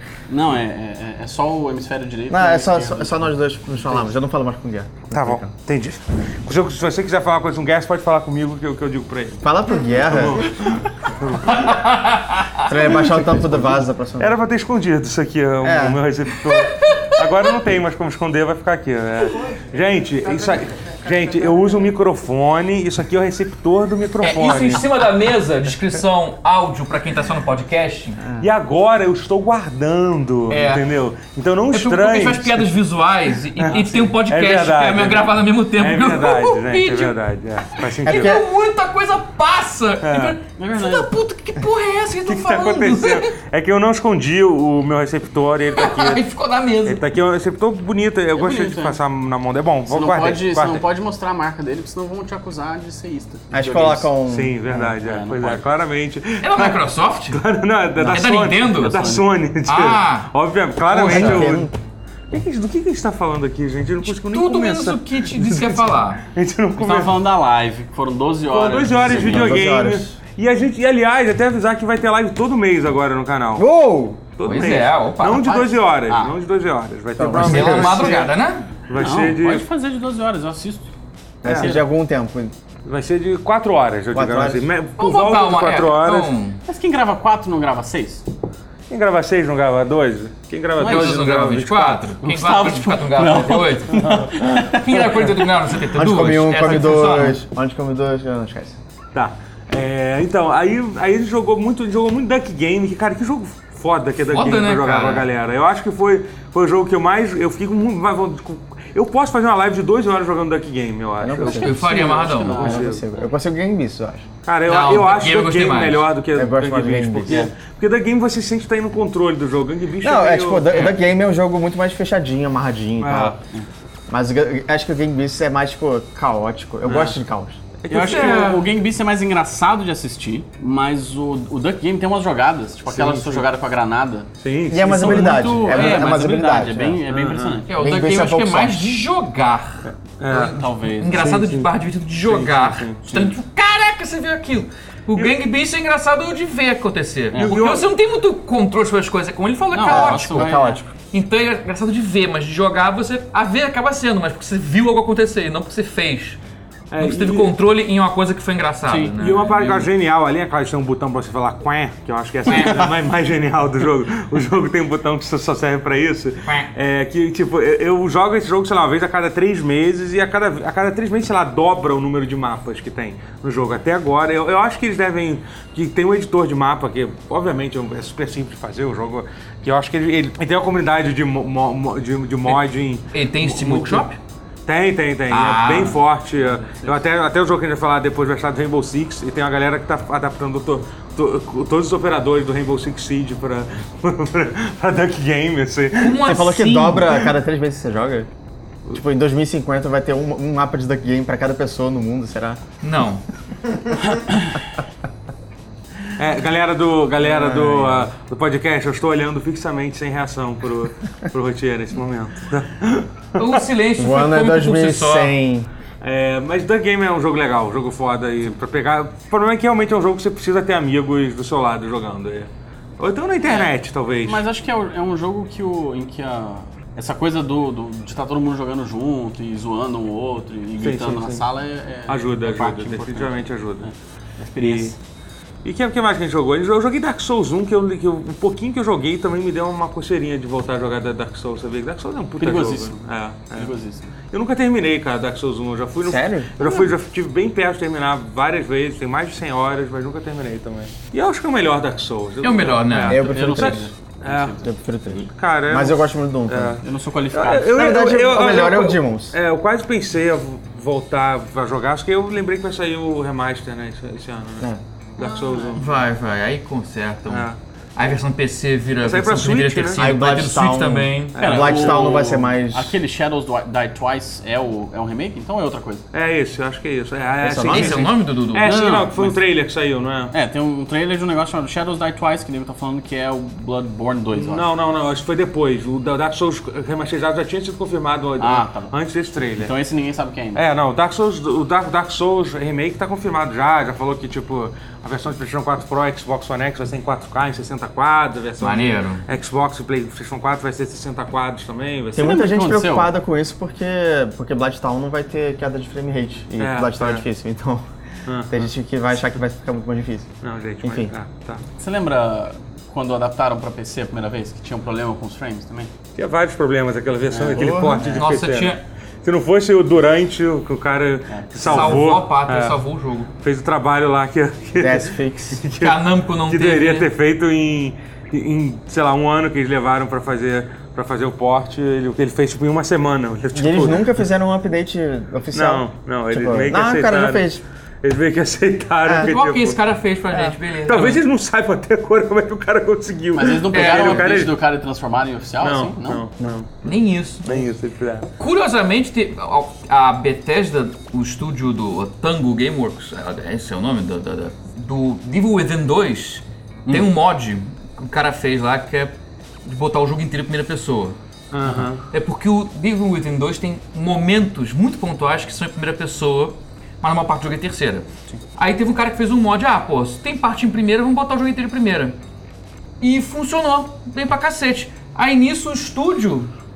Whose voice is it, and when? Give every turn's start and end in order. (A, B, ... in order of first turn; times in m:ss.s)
0:00.3-0:03.3 A
0:02.3-0:05.5 B
0:05.1-0:11.8 C
0:09.4-0:10.5 B
0:11.4-0:13.1 D
0:12.6-0:14.4 B
0:12.8-0:24.9 C
0:15.6-0:16.0 B
0:16.4-0:17.5 D
0:24.2-0:28.2 D
0:28.4-0:32.7 C
0:30.5-0:30.9 D
0:31.7-0:37.2 D
0:33.5-0:38.4 C
0:37.8-0:43.3 D
0:38.0-0:38.5 B
0:40.0-0:40.4 C
0:40.6-0:41.1 A
0:42.3-0:46.2 C
0:45.8-0:47.0 D
0:46.8-0:50.8 C
0:48.4-0:49.0 A
0:49.9-0:54.1 A
0:53.5-0:54.9 B
0:54.3-1:01.7 C
0:54.7-0:55.7 A
0:56.4-0:57.4 D
0:58.0-0:59.2 A
0:58.0-1:00.3 D
1:00.9-1:01.5 D
1:00.9-1:01.7 B
1:02.3-1:07.2 C
1:04.0-1:06.2 D
1:06.8-1:09.6 A
1:08.5-1:13.7 C
1:09.1-1:10.1 B
1:13.6-1:14.2 B
1:14.4-1:18.2 C
1:14.4-1:15.6 D
1:15.3-1:16.4 A
1:17.2-1:18.3 B
1:17.3-1:18.7 D
1:18.9-1:19.7 C
1:18.9-1:20.9 A
1:21.4-1:22.5 B
1:21.4-1:21.8 C
1:21.5-1:21.8 A
1:22.8-1:26.4 C
1:24.1-1:24.7 B
1:25.0-1:26.6 D
1:26.6-1:28.2 A
1:28.9-1:32.1 C
1:30.8-1:31.2 A
1:30.8-1:37.4 D
1:32.2-1:35.6 A
1:33.2-1:34.4 C
1:35.9-1:38.8 B
1:39.1-1:53.0 C
1:44.3-1:45.3 D
1:51.2-1:54.3 B
1:51.4-1:52.8 D
1:51.7-1:53.0 A
1:54.5-2:00.8 C
1:54.7-1:56.1 D
1:56.4-1:57.5 B
2:00.0-2:03.4 B
2:03.0-2:03.4 C
2:04.1-2:07.6 B
2:06.9-2:07.2 C
2:07.8-2:08.6 C
2:07.9-2:14.3 A
2:08.0-2:08.7 D
2:12.9-2:13.5 C
2:14.4-2:16.0 C
2:14.7-2:17.0 B
2:14.9-2:17.8 A
2:17.1-2:17.6 C
2:17.7-2:36.4 D
2:17.8-2:18.9 B
2:19.8-2:23.2 C
2:20.4-2:21.4 A
2:27.3-2:27.6 A
2:27.3-2:27.9 C
2:29.7-2:30.8 A
2:29.9-2:30.9 B
2:36.9-2:37.6 C
2:37.0-2:39.9 D
2:38.9-2:39.1 A
2:39.2-3:04.1 C
2:42.5-2:42.9 D
3:03.1-3:04.2 D
3:04.7-3:16.4 C
3:05.3-3:06.0 D
3:06.5-3:07.0 A
3:16.0-3:17.2 D
3:16.2-3:18.3 B
3:18.9-3:22.6 B
3:22.8-3:23.2 D
3:26.2-3:33.7 C
3:27.2-3:28.1 B
3:33.4-3:35.3 D
3:34.0-3:35.7 B
3:36.0-3:44.4 C
3:43.4-3:43.7 A
3:44.2-3:55.0 A
3:50.8-3:51.4 C
3:52.1-3:53.9 C
3:54.6-3:54.9 C
3:55.6-4:03.7 C
4:02.4-4:03.0 A
4:03.6-4:04.1 A
4:04.3-4:14.6 C
4:06.0-4:06.8 B
4:12.4-4:13.3 D
4:13.0-4:13.9 B
4:13.2-4:14.7 A
4:14.6-4:16.8 B
4:15.1-4:25.9 C
4:16.8-4:17.8 A
4:17.7-4:19.4 B
4:25.2-4:25.8 A
4:25.8-4:31.4 D
4:27.3-4:27.6 C
4:29.0-4:30.1 C
4:30.0-4:33.0 B
4:31.4-4:32.1 C
4:31.4-4:36.0 A
4:36.1-4:40.3 C
4:37.4-4:38.1 B
4:37.6-4:38.8 D
4:38.6-4:39.4 A
4:40.3-4:44.6 A
4:44.4-4:49.7 C
4:48.4-4:48.9 A
4:49.6-4:50.6 A
4:50.6-5:02.4 C
4:58.6-4:59.2 D
5:02.2-5:07.8 B
5:02.2-5:03.1 A
5:06.6-5:07.2 C
5:08.3-5:08.7 C
5:08.5-5:10.3 B
5:10.4-5:11.6 C
5:10.8-5:11.1 B
5:11.8-5:15.9 A
5:16.2-5:22.8 C
5:17.3-5:17.7 A
5:17.4-5:18.2 B
5:18.0-5:18.8 D
5:21.3-5:22.0 A
5:21.6-5:23.3 D
5:23.4-5:34.2 C
5:24.8-5:25.7 B
5:25.8-5:27.1 D
5:33.5-5:37.6 B
5:35.5-5:37.5 C
5:38.0-5:39.8 C
5:39.0-5:39.3 B
5:39.2-5:41.2 D
5:40.4-5:44.6 C
5:43.3-5:46.2 A
5:43.7-5:44.4 D
5:45.6-5:46.8 C
5:46.8-5:47.7 D
5:47.4-5:48.3 C
5:48.4-6:01.2 D
6:01.5-6:02.0 C
6:02.1-6:12.2 D
6:13.0-6:16.5 D